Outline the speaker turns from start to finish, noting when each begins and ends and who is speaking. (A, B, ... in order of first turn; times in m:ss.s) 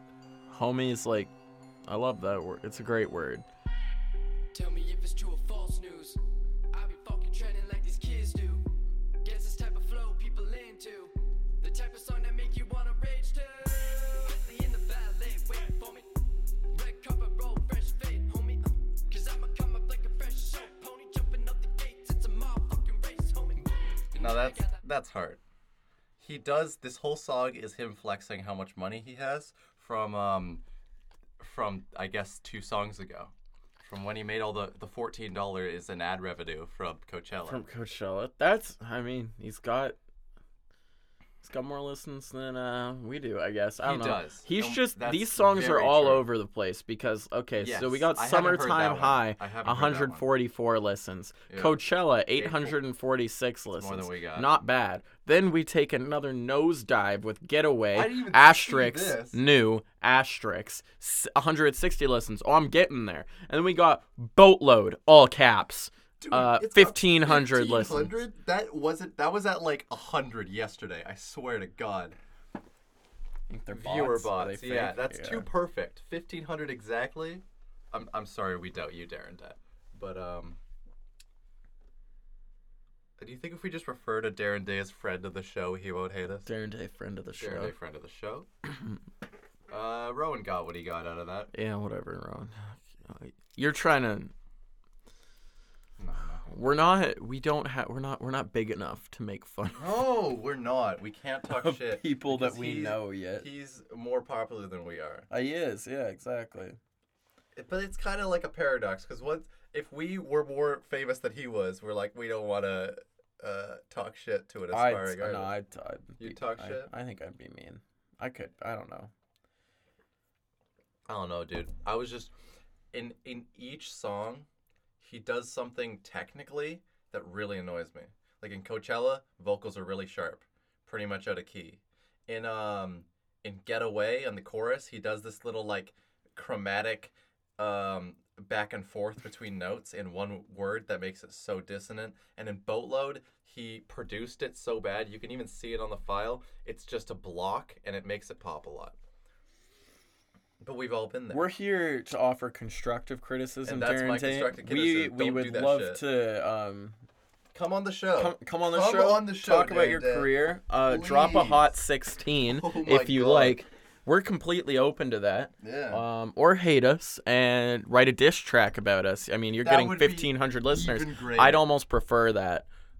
0:00.5-0:01.3 A
0:01.8-0:03.4 A
0:04.5-0:06.2 B
0:06.7-0:08.6 B
0:09.2-0:16.1 B
0:16.7-0:24.8 B
0:24.2-0:25.4 C
0:26.2-0:30.6 C
0:31.4-0:37.6 C
0:37.4-0:40.0 A
0:41.4-1:08.1 A
0:43.8-0:46.3 C
0:47.6-0:50.2 C
0:51.5-0:52.8 C
0:53.8-0:54.6 C
0:57.9-0:59.4 C
1:06.2-1:12.2 C
1:13.5-1:15.5 A
1:13.7-1:20.6 C
1:23.2-1:26.5 C
1:26.4-1:27.7 A
1:27.4-1:28.5 C
1:29.7-1:31.5 C
1:31.5-1:34.3 A
1:36.0-1:36.6 C
1:36.5-1:39.9 A
1:39.8-1:45.3 C
1:41.5-1:43.5 A
1:45.3-1:46.8 A
1:47.5-1:55.6 C
1:54.7-1:59.1 A
1:56.2-1:56.9 C
2:01.0-2:02.3 C
2:02.9-2:04.5 C
2:05.0-2:29.0 C
2:30.6-2:31.5 C
2:31.3-2:37.0 A
2:33.6-2:36.0 C
2:37.5-2:41.7 C
2:38.1-2:52.7 A
2:42.4-2:43.6 C
2:45.6-2:46.0 C
2:49.6-2:51.7 C